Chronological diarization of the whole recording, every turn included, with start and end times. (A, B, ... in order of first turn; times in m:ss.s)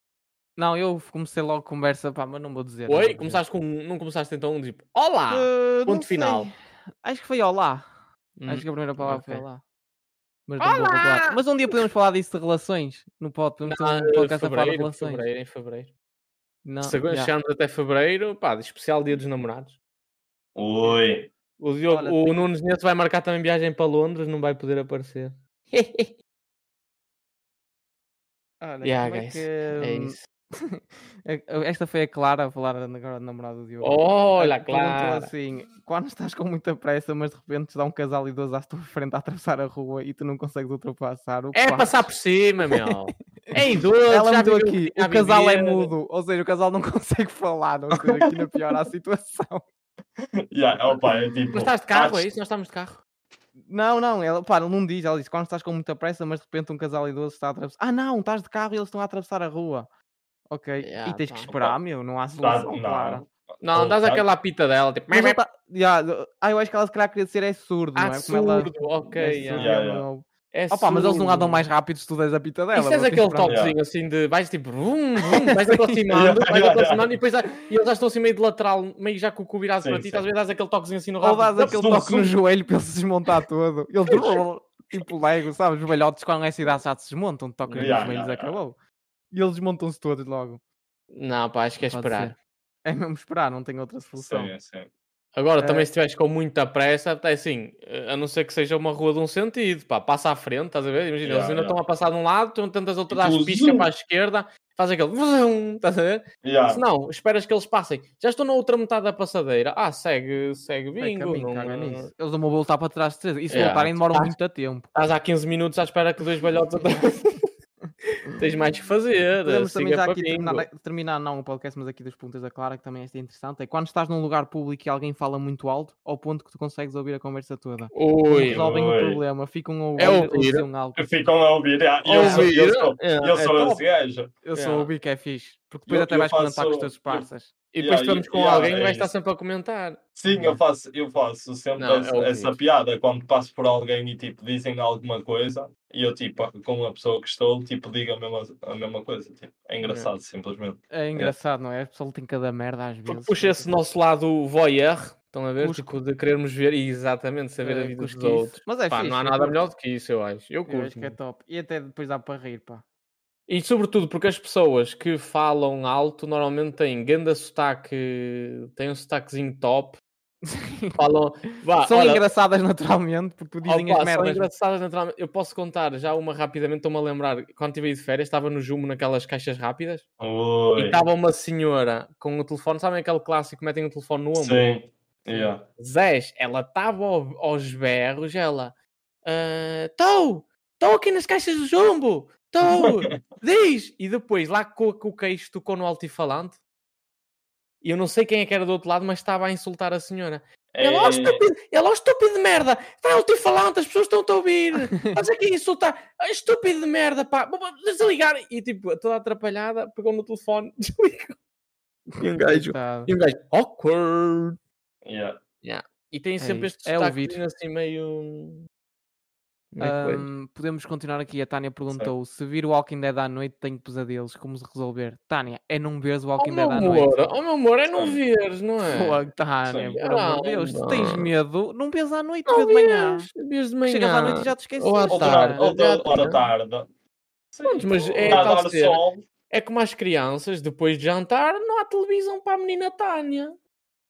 0:00.6-0:03.4 A
0:02.9-0:06.5 B
0:05.3-0:09.6 A
0:08.4-0:09.4 B
0:10.5-0:15.3 A
0:10.6-0:11.4 B
0:13.6-0:15.9 B
0:16.6-0:17.3 A
0:16.8-0:19.8 B
0:20.6-0:21.3 C
0:21.6-0:26.0 B
0:21.9-0:22.4 A
0:28.6-0:42.1 A
0:28.8-0:30.2 B
0:33.8-0:35.3 B
0:41.5-0:45.9 B
0:43.5-0:49.6 A
0:47.9-0:48.3 C
0:50.5-0:52.3 C
0:51.5-0:53.0 B
0:53.6-0:59.9 A
1:00.5-1:03.2 A
1:00.8-1:01.5 B
1:01.5-1:01.8 C
1:02.4-1:04.2 C
1:03.6-1:05.4 B
1:05.1-1:13.6 A
1:08.0-1:09.7 B
1:09.5-1:10.0 C
1:10.5-1:11.7 B
1:12.7-1:21.9 B
1:13.4-1:13.8 C
1:15.3-1:16.0 A
1:16.1-1:17.2 C
1:19.8-1:20.2 C
1:21.2-1:28.8 A
1:21.6-1:22.3 C
1:27.7-1:28.6 C
1:29.3-1:30.6 A
1:31.1-1:32.3 B
1:31.8-1:34.5 A
1:34.2-1:34.9 C
1:35.4-1:52.1 B
1:35.6-1:35.9 A
1:41.2-1:41.8 C
1:43.1-1:43.9 C
1:46.4-1:46.8 C
1:51.0-1:54.9 A
1:53.5-1:54.4 B
1:54.9-1:57.5 B
1:58.4-2:00.7 B
1:59.4-2:11.0 A
2:07.9-2:08.7 B
2:08.5-2:09.2 C
2:10.0-2:10.6 B
2:11.0-2:14.3 C
2:12.0-2:13.8 B
2:12.1-2:12.5 A
2:14.4-2:17.5 A
2:14.5-2:14.9 B
2:15.9-2:17.2 C
2:17.7-2:20.5 B
2:17.8-2:19.1 C
2:20.2-2:31.3 C
2:21.8-2:22.6 B
2:29.8-2:30.1 B
2:30.9-2:33.8 A
2:33.1-2:41.2 B
2:35.6-2:36.0 A
2:37.6-2:39.6 A
2:40.6-2:42.8 A
2:43.5-2:50.0 B
2:50.5-2:51.0 A
2:51.0-2:52.2 B
2:51.8-2:54.5 A
2:53.6-3:00.0 B
3:00.2-3:01.0 C
3:00.8-3:04.6 B
3:04.4-3:05.6 C
3:05.3-3:16.6 B
3:12.6-3:13.2 C
3:17.8-3:31.4 B
3:20.7-3:21.4 C
3:24.9-3:25.2 A
3:32.1-3:33.1 A
3:32.2-3:34.6 B
3:35.0-3:35.4 C
3:35.6-3:38.6 B
3:36.4-3:37.4 A
3:39.7-3:40.3 B
3:39.8-3:47.3 A
3:46.4-3:49.2 B
3:47.9-3:48.2 C
3:48.8-3:53.3 A
3:49.7-3:50.0 C
3:50.0-3:51.3 B
3:52.5-3:56.4 B
3:53.8-3:55.7 A
3:55.1-3:56.9 C
3:57.5-3:59.3 C
3:57.6-4:03.6 B
3:58.2-3:58.5 A